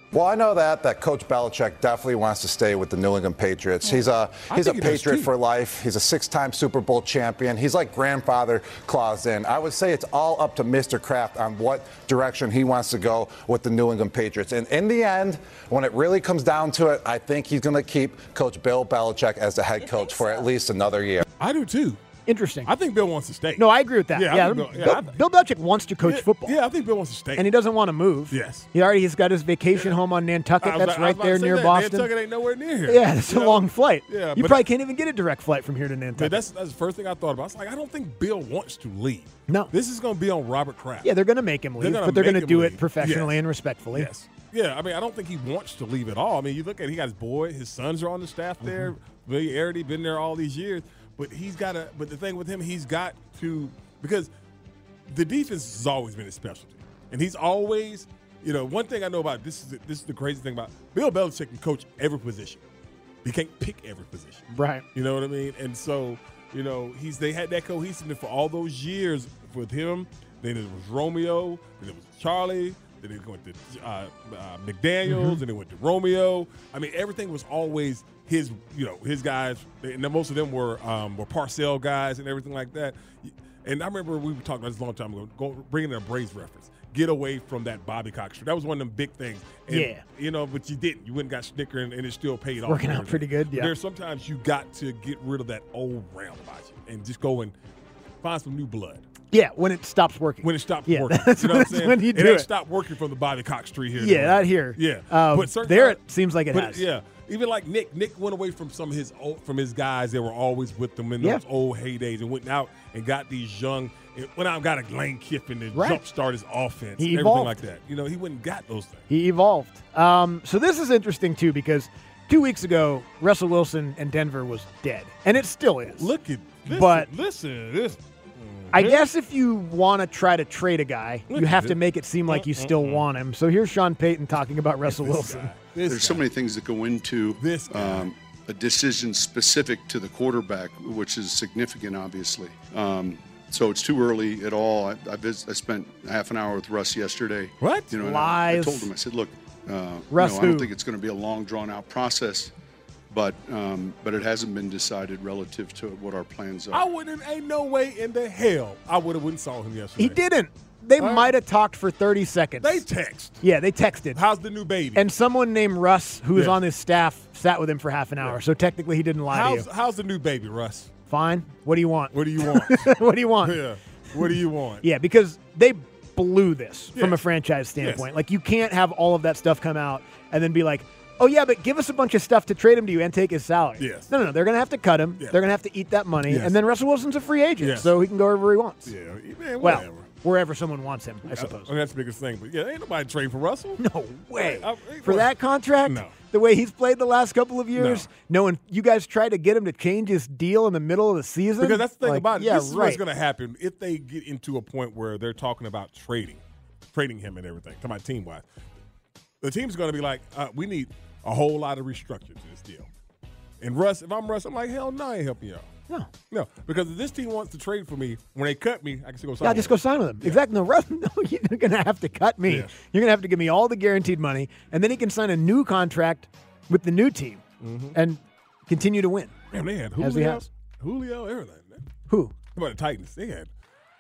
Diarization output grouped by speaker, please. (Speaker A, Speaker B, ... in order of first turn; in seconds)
Speaker A: 0.1-21.2
Speaker B: 3.8-5.3, 21.4-22.0, 22.7-25.2, 26.0-27.5, 28.3-28.7, 30.6-34.7, 36.2-41.1, 41.8-43.4, 43.9-54.3, 55.1-62.6, 63.2-97.5, 98.2-99.0, 100.4-119.0, 126.0-129.1, 131.3-133.1, 134.9-136.3, 137.4-138.1, 147.6-147.9, 156.7-160.2, 161.0-161.3, 162.6-163.4, 164.1-165.1, 166.3-166.6, 169.3-170.9, 172.1-172.9, 173.4-174.9, 176.9-177.2, 177.8-178.1, 183.8-184.1, 186.3-186.6, 187.6-187.9, 188.9-190.1, 191.3-193.8, 194.4-196.1, 197.7-198.1, 201.6-206.4, 206.9-208.4, 209.4-212.9, 213.6-215.7, 216.3-220.4, 227.6-228.0, 229.5-231.8, 232.6-233.5
Speaker C: 22.3-22.7, 23.6-26.6, 27.3-32.1, 32.9-36.4, 41.0-44.1, 48.6-48.9, 64.5-64.8, 75.1-75.4, 89.7-90.0, 92.6-93.7, 99.3-102.5, 104.0-106.9, 115.7-116.0, 117.0-117.6, 119.1-126.1, 126.7-127.1, 128.7-135.5, 148.0-148.9, 150.1-150.7, 160.0-162.9, 163.4-164.2, 164.9-169.7, 171.1-173.6, 174.8-188.9, 189.6-191.7, 193.8-203.0, 219.4-227.4, 227.9-229.3, 230.0-230.5, 232.1-232.3
Speaker D: 135.9-152.5, 153.1-156.9